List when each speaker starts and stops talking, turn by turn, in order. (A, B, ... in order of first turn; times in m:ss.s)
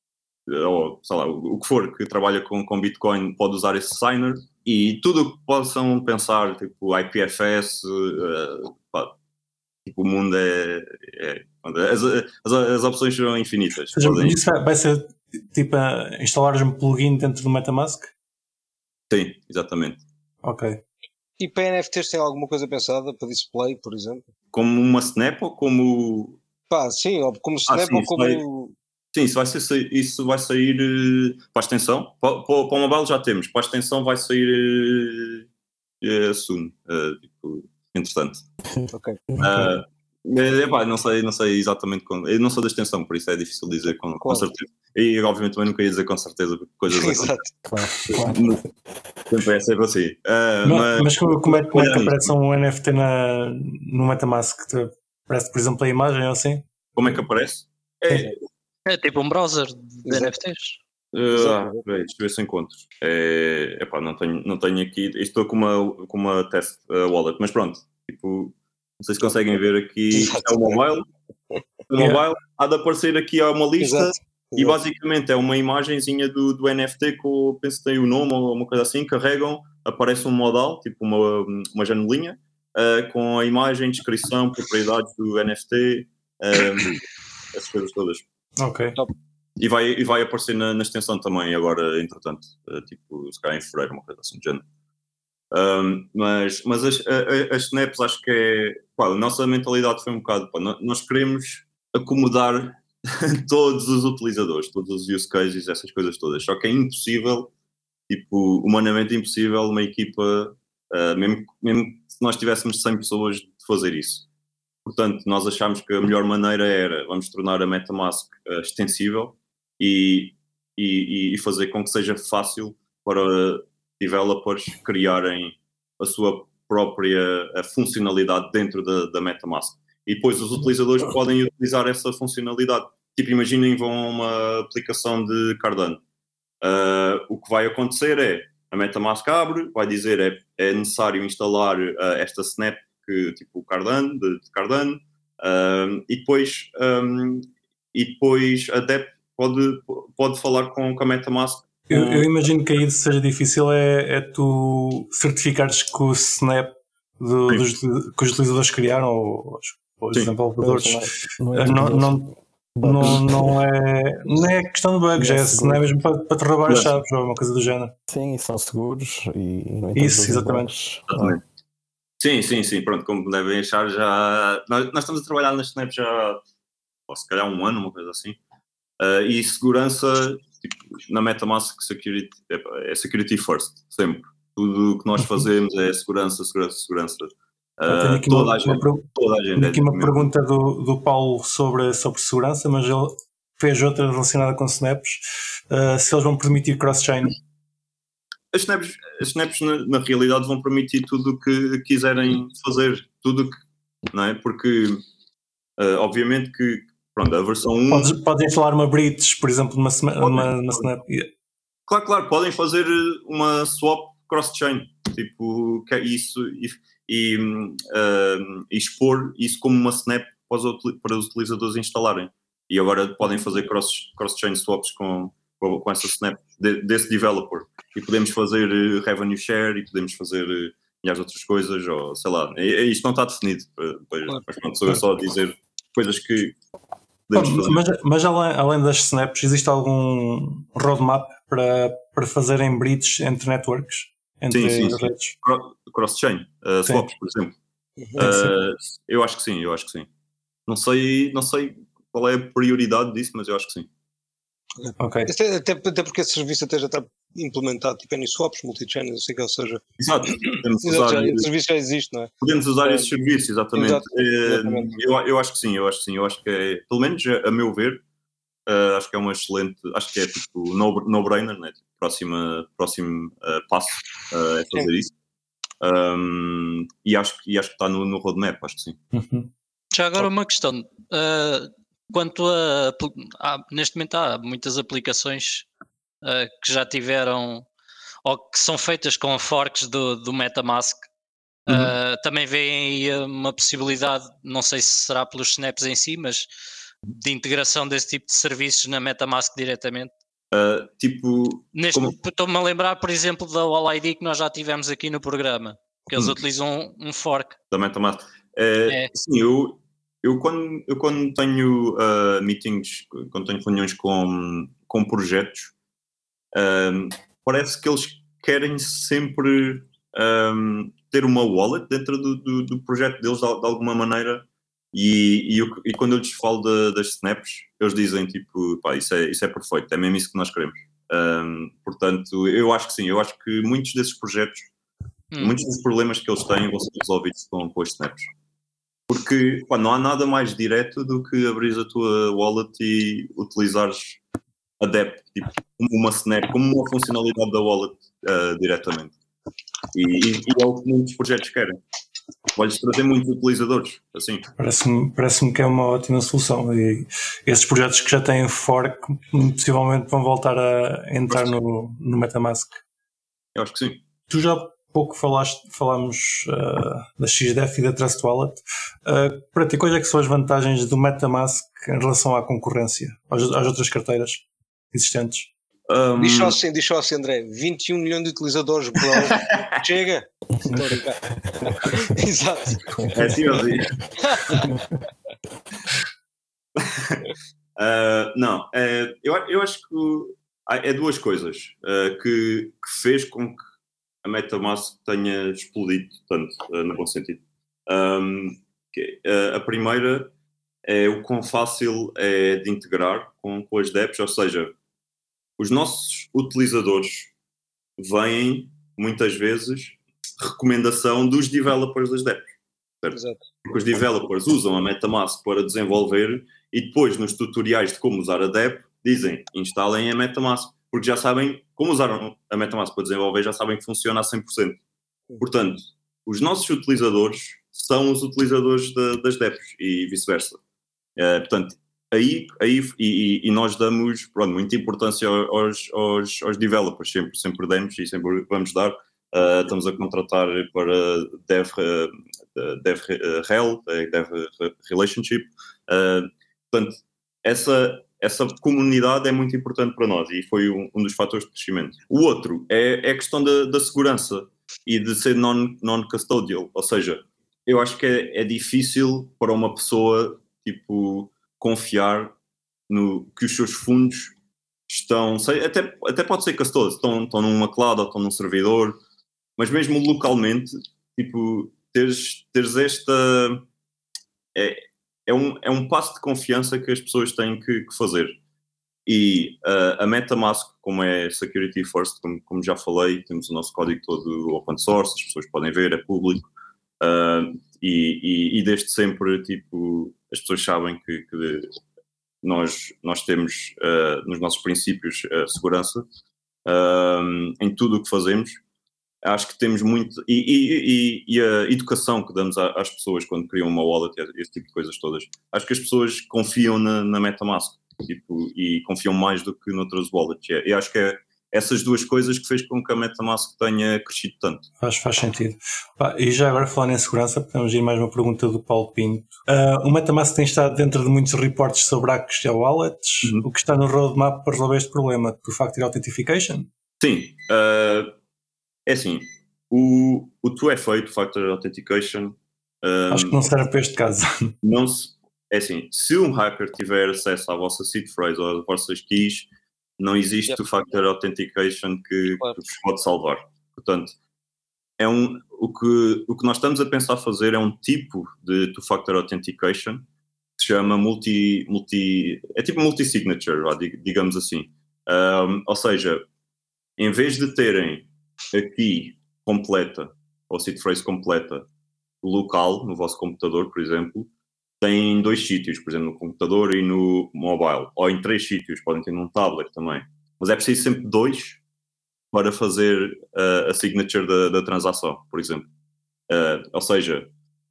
0:00.5-0:09.1 A
0:09.8-0:14.4 A
0:13.9-0:18.1 B
0:19.1-0:20.0 A
0:20.4-0:20.8 B
0:21.4-0:24.2 C
0:24.5-0:26.4 A
0:26.7-0:28.7 C
0:27.7-0:28.4 A
0:29.1-0:35.4 A
0:36.0-0:38.4 A
0:38.7-0:39.7 D
0:38.9-0:39.2 C
0:39.4-0:47.3 A
0:44.2-0:44.5 C
0:46.9-0:47.5 C
0:47.6-0:48.6 D
0:48.1-0:48.6 A
0:49.3-0:52.3 A
0:50.6-0:56.6 B
0:57.0-0:58.4 A
0:58.8-1:00.8 E
1:00.0-1:00.3 C
1:01.1-1:11.0 A
1:01.3-1:01.8 C
1:10.1-1:10.8 C
1:11.9-1:27.0 A
1:13.8-1:14.8 C
1:27.5-1:28.2 A
1:28.6-1:29.0 B
1:29.6-1:34.6 A
1:35.5-1:47.5 A
1:48.1-1:54.2 A
1:54.8-2:16.0 A
2:16.6-2:32.4 A
2:31.9-2:42.3 B
2:40.6-2:43.6 D
2:42.8-2:47.9 B
2:45.2-2:45.8 D
2:46.7-2:47.0 A
2:48.1-2:51.3 D
2:49.9-2:50.7 B
2:51.1-2:51.4 A
2:52.2-2:56.4 A
2:57.1-2:58.4 A
2:59.0-3:10.3 A
3:07.8-3:17.4 B
3:18.5-3:25.0 A
3:25.8-3:28.1 A
3:27.9-3:31.3 B
3:30.2-3:30.9 A
3:31.9-3:56.6 A
3:57.3-3:57.8 A
3:57.3-4:05.3 B
4:04.5-4:07.6 A
4:08.0-4:08.3 C
4:08.2-4:10.1 A
4:08.2-4:08.5 B
4:10.7-4:13.9 A
4:14.8-4:19.8 C
4:15.0-4:15.3 B
4:20.0-4:21.5 A
4:20.4-4:22.3 C
4:22.4-4:28.0 A
4:22.8-4:23.1 C
4:23.7-4:25.0 C
4:28.7-4:35.1 A
4:35.8-4:39.0 A
4:39.1-4:39.5 B
4:39.9-4:45.6 E
4:46.2-4:47.7 E
4:48.2-4:51.1 E
4:51.6-4:56.5 E
4:51.7-4:51.9 A
4:57.1-5:00.1 E
5:00.5-5:02.2 A
5:01.7-5:07.6 E
5:07.7-5:15.7 A
5:16.5-5:34.7 A
5:35.3-5:35.6 E
5:35.4-5:38.3 A
5:39.1-5:44.2 A
5:44.8-5:49.1 A
5:49.9-5:51.8 A
5:52.5-5:54.4 A
5:54.6-6:02.8 B
6:03.5-6:04.0 A
6:04.3-6:15.5 B
6:15.9-6:16.6 A
6:16.2-6:21.2 C
6:19.1-6:19.8 A
6:20.6-6:21.9 D
6:21.7-6:23.1 C
6:23.1-6:24.0 A
6:24.2-6:24.7 C
6:24.5-6:25.0 D
6:26.8-6:27.2 A
6:27.8-6:33.6 A
6:34.2-6:40.3 A
6:40.8-6:44.7 A
6:45.6-6:47.3 A
6:48.0-7:04.8 A
6:53.1-6:53.4 C
7:05.4-7:10.6 A
7:11.2-7:42.4 A
7:42.9-7:44.3 A
7:44.9-7:49.0 A
7:49.6-7:53.6 A
7:54.5-7:58.4 A
7:59.0-8:06.5 A
8:07.0-8:11.7 A
8:12.4-8:16.0 A
8:16.6-8:18.6 A
8:19.2-8:34.6 A
8:34.8-8:46.7 B
8:47.0-8:48.1 A
8:48.8-8:53.5 A
8:53.1-8:54.5 B
8:54.6-9:04.2 A
9:05.0-9:10.0 A
9:10.6-9:16.2 A
9:17.0-9:21.7 A
9:22.2-9:24.3 A
9:24.8-9:31.6 A
9:32.3-9:35.7 A
9:36.3-9:37.3 A